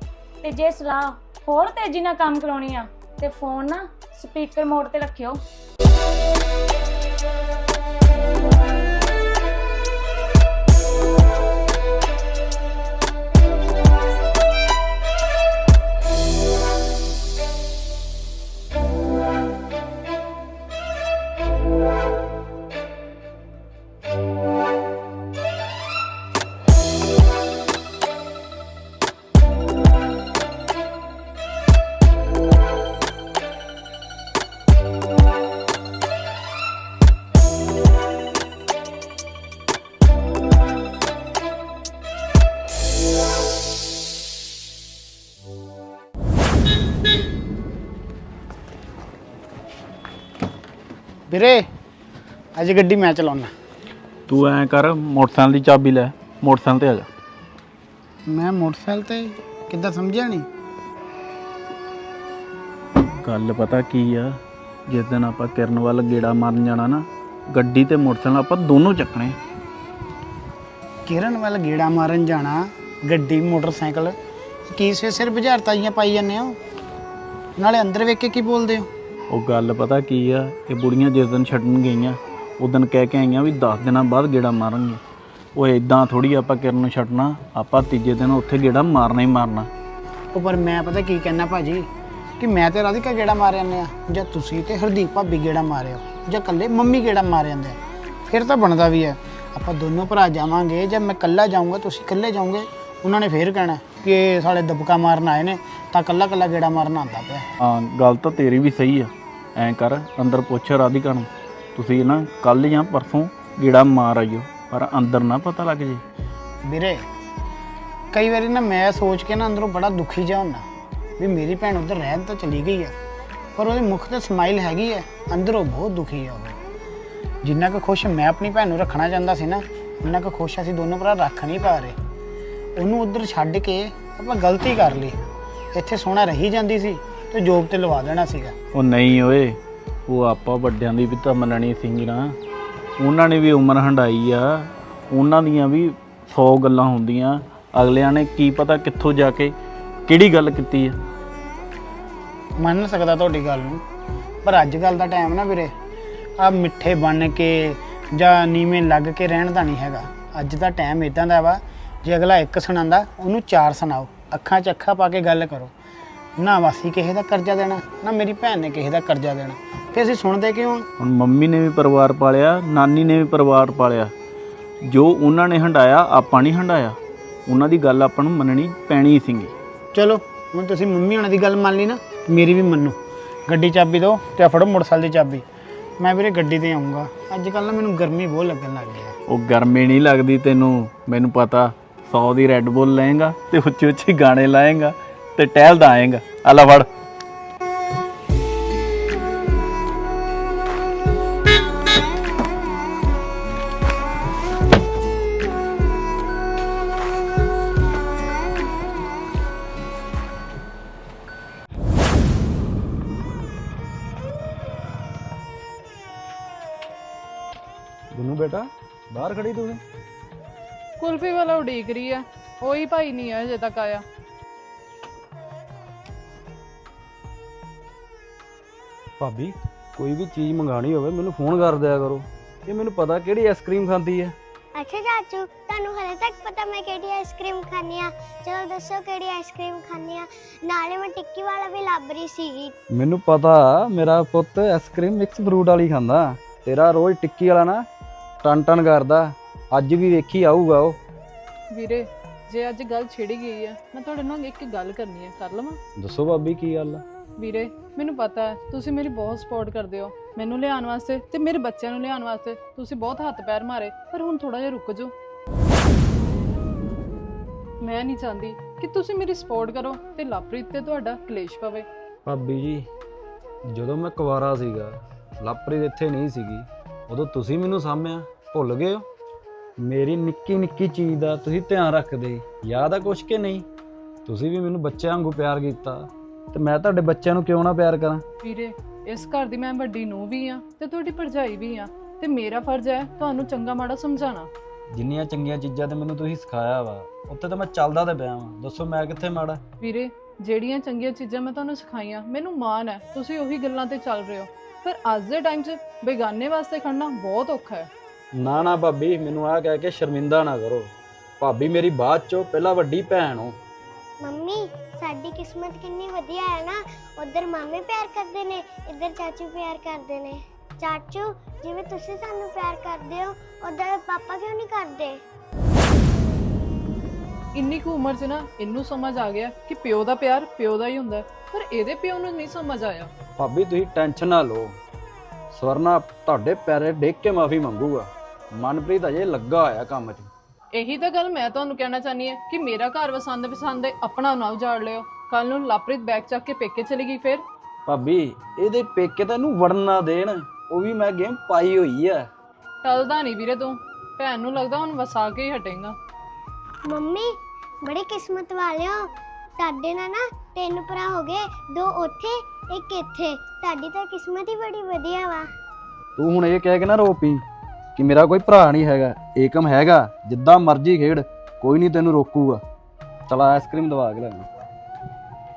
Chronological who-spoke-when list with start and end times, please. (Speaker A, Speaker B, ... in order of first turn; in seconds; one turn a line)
Speaker A: 0.4-5.4
Speaker B: 51.3-51.6
Speaker B: 52.6-53.5
Speaker C: 54.3-57.1
Speaker B: 58.3-60.5
Speaker C: 63.2-64.3
Speaker C: 64.9-69.4
Speaker B: 71.1-74.1
Speaker B: 74.7-76.6
Speaker B: 77.6-78.9
Speaker C: 79.3-85.0
Speaker C: 85.6-89.7
Speaker B: 90.3-91.8
Speaker B: 92.4-107.4
Speaker C: 107.6-116.0
Speaker B: 116.6-117.0
Speaker B: 118.1-120.6
Speaker B: 121.2-122.9
Speaker B: 123.6-126.6
Speaker B: 127.4-132.0
Speaker B: 132.8-135.2
Speaker B: 135.8-138.5
Speaker C: 138.8-142.4
Speaker C: 143.0-144.5
Speaker C: 145.1-149.5
Speaker C: 150.1-151.0
Speaker B: 152.6-153.8
Speaker B: 154.4-155.7
Speaker B: 156.4-165.7
Speaker B: 166.4-170.8
Speaker C: 171.0-174.1
Speaker C: 174.9-179.5
Speaker B: 179.9-183.0
Speaker B: 183.5-185.4
Speaker B: 186.0-189.1
Speaker C: 189.3-196.9
Speaker D: 218.1-219.8
Speaker E: 221.0-224.0
Speaker D: 229.2-234.3
Speaker F: 234.8-242.7
Speaker D: 242.9-247.9
Speaker D: 248.4-251.0
Speaker E: 251.7-255.8
Speaker D: 256.0-257.0
Speaker E: 257.4-265.1
Speaker E: 267.8-271.9
Speaker D: 272.2-272.9
Speaker D: 273.7-279.1
Speaker D: 279.8-283.7
Speaker D: 284.2-288.2
Speaker E: 288.4-294.5
Speaker D: 294.9-299.6
Speaker E: 299.8-307.9
Speaker D: 308.4-313.6
Speaker F: 314.2-325.2
Speaker E: 327.6-333.1
Speaker D: 333.4-334.8
Speaker D: 335.5-340.3
Speaker E: 340.7-347.4
Speaker D: 347.9-352.3
Speaker E: 352.8-355.9
Speaker F: 356.9-357.3
Speaker F: 357.8-359.0
Speaker F: 359.6-365.5
Speaker D: 366.2-367.4
Speaker D: 367.9-372.6
Speaker D: 373.3-374.5